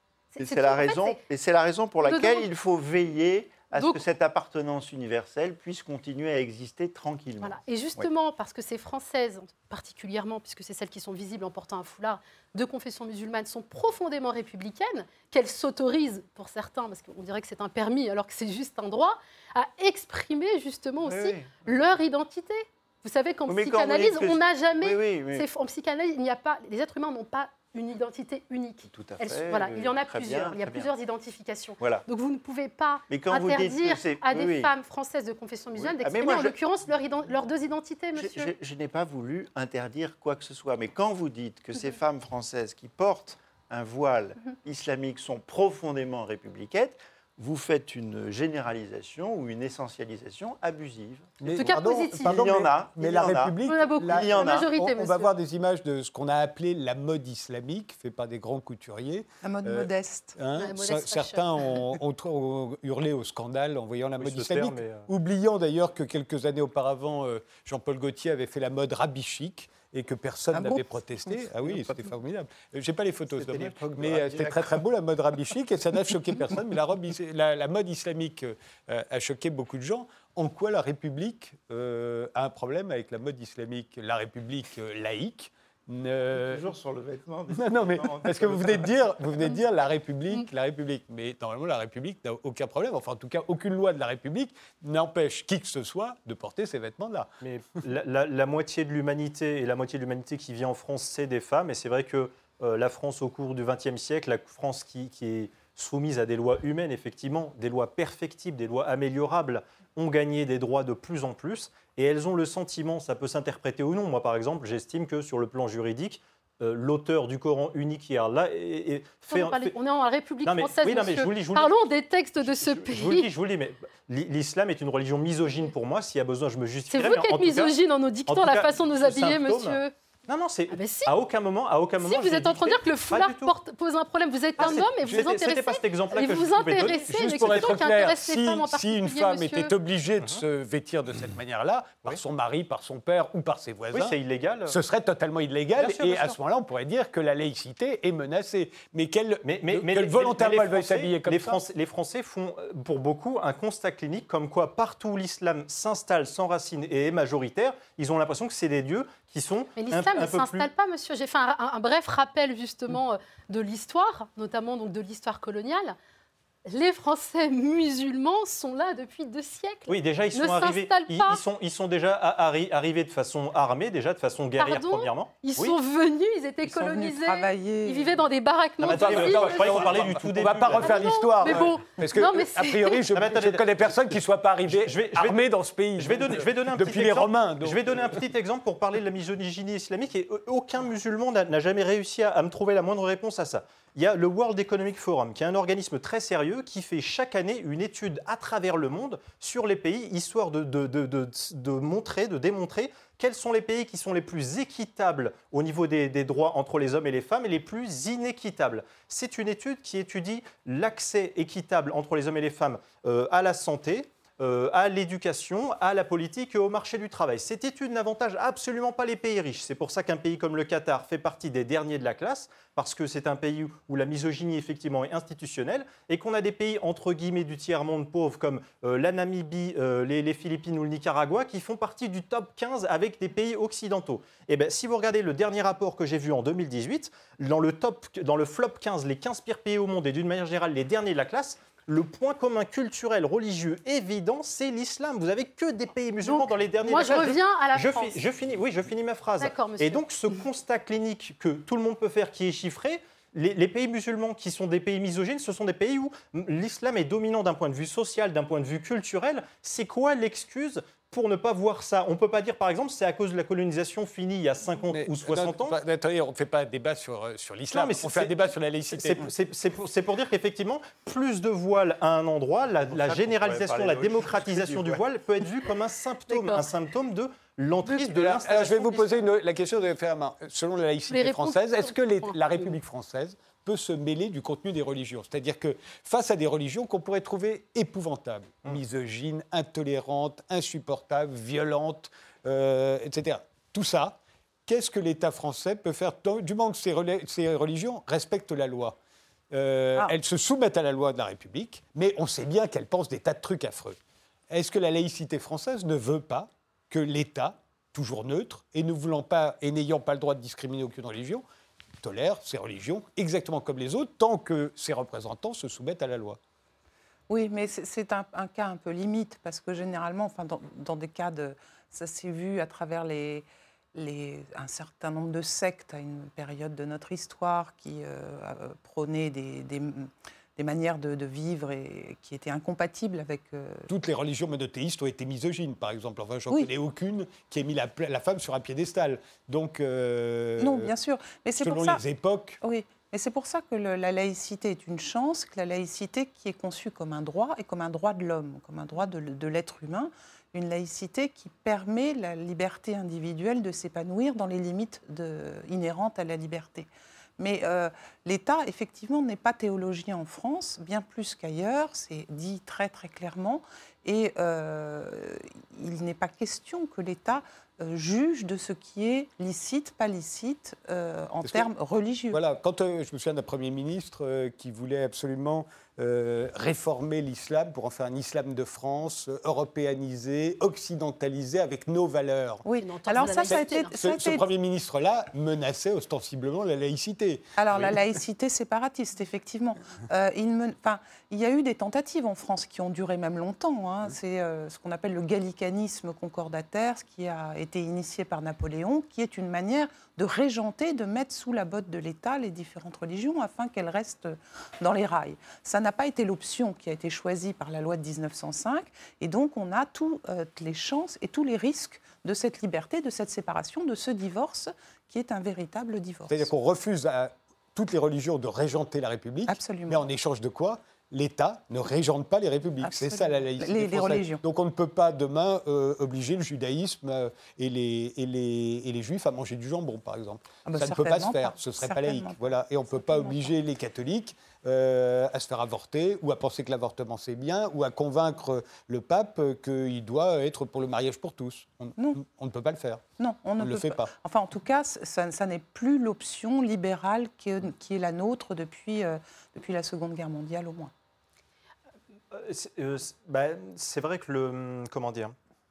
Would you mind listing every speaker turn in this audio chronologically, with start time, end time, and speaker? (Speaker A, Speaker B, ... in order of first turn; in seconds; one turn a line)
Speaker A: 0.3-1.2
Speaker B: 0.4-8.1
Speaker A: 2.0-2.5
Speaker A: 3.8-4.0
Speaker A: 7.4-38.5
Speaker B: 21.0-21.7
Speaker B: 23.5-25.5
Speaker B: 28.9-30.9
Speaker B: 31.8-32.1
Speaker B: 33.1-34.7
Speaker B: 35.8-36.6
Speaker B: 38.1-54.7
Speaker C: 51.4-86.7
Speaker A: 51.6-52.6
Speaker A: 53.6-55.3
Speaker D: 59.4-60.4
Speaker A: 60.5-61.7
Speaker E: 64.2-65.1
Speaker D: 70.5-71.4
Speaker B: 71.6-72.0
Speaker B: 73.3-74.8
Speaker B: 86.3-89.0
Speaker C: 87.5-97.3
Speaker E: 97.4-119.7
Speaker A: 119.3-123.3
Speaker E: 120.5-121.7
Speaker E: 122.4-127.8
Speaker A: 126.9-129.9
Speaker E: 128.3-133.5
Speaker A: 130.7-131.1
Speaker A: 132.0-139.7
Speaker E: 134.6-137.0
Speaker C: 136.9-144.2
Speaker E: 143.9-144.8
Speaker C: 144.7-151.6
Speaker E: 145.8-146.4
Speaker E: 149.4-160.7
Speaker A: 159.8-165.9
Speaker A: 166.7-171.4
Speaker E: 169.9-175.8
Speaker A: 174.6-180.0
Speaker D: 176.7-178.2
Speaker E: 178.8-181.7
Speaker C: 178.9-188.2
Speaker A: 180.8-183.0
Speaker E: 183.1-184.1
Speaker E: 184.7-185.4
Speaker E: 186.0-265.8
Speaker A: 246.2-248.2
Speaker A: 249.4-250.4
Speaker C: 264.9-269.3
Speaker E: 267.7-268.4
Speaker E: 268.9-279.1
Speaker C: 272.9-275.0
Speaker A: 276.3-276.7
Speaker C: 277.9-299.0
Speaker A: 281.1-282.7
Speaker C: 299.5-304.0
Speaker C: 304.5-311.4
Speaker C: 312.0-316.4
Speaker D: 317.3-333.9
Speaker C: 333.9-340.9
Speaker D: 340.6-342.0
Speaker C: 341.6-342.6
Speaker D: 342.6-372.4
Speaker C: 371.4-371.7
Speaker C: 372.3-382.6
Speaker D: 382.6-384.5
Speaker A: 382.8-383.9
Speaker C: 383.4-387.9
Speaker D: 387.6-416.5
Speaker C: 416.3-443.0
Speaker D: 419.5-420.0
Speaker D: 422.8-424.4
Speaker D: 430.6-433.5
Speaker D: 442.0-442.2
Speaker D: 443.2-450.9
Speaker C: 443.6-444.1
Speaker E: 452.3-455.3